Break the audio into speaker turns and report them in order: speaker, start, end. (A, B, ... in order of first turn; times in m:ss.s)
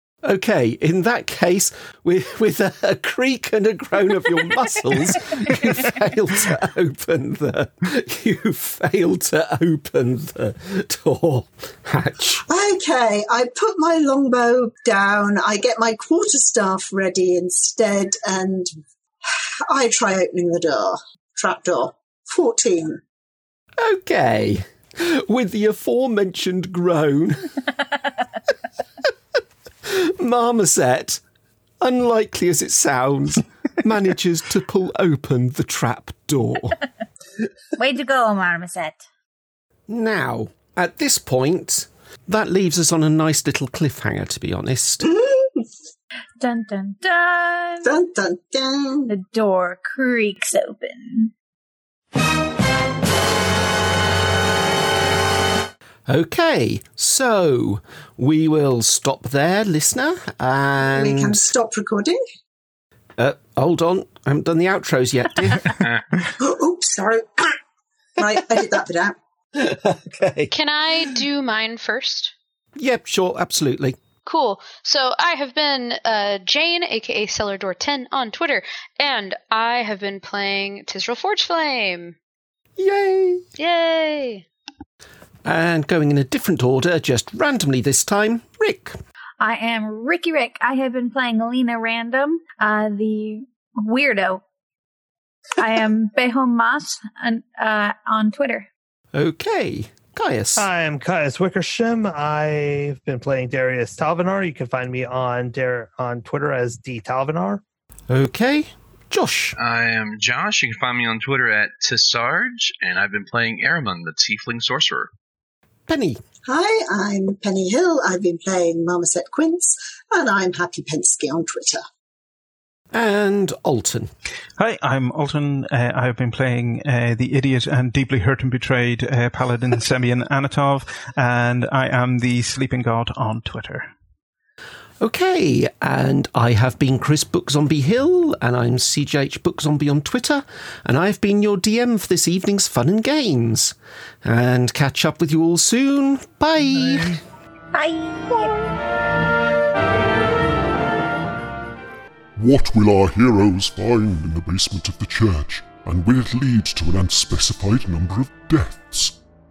0:00.2-0:12.4 A
0:12.5-0:18.7 B
0:19.2-0:23.0 B
0:23.8-0:27.6 A
0:29.8-0:31.2 A
0:31.8-0:36.8 A
0:37.8-0:39.0 C
0:39.9-0:45.0 A
0:45.0-0:45.6 B
0:46.4-0:48.0 C
0:47.8-0:49.1 B
0:49.1-0:51.3 C
0:56.1-1:01.5 A
1:00.9-1:02.2 B
1:03.2-1:05.8 A
1:06.4-1:07.6 B
1:08.2-1:09.1 B
1:09.5-1:10.5 A
1:10.5-1:12.3 D
1:12.8-1:14.0 A
1:14.2-1:22.2 D
1:22.8-1:23.4 A
1:23.6-1:24.4 D
1:25.4-1:29.0 A
1:29.4-1:34.4 C
1:35.6-1:38.7 C
1:39.1-1:40.7 A
1:40.6-1:47.6 E
1:48.1-1:49.6 A
1:49.6-1:55.1 F
1:55.9-1:56.2 A
1:56.5-2:01.8 B
2:02.9-2:04.1 A
2:04.6-2:13.9 G
2:15.0-2:27.2 A
2:27.7-2:28.6 C
2:32.4-2:39.2 H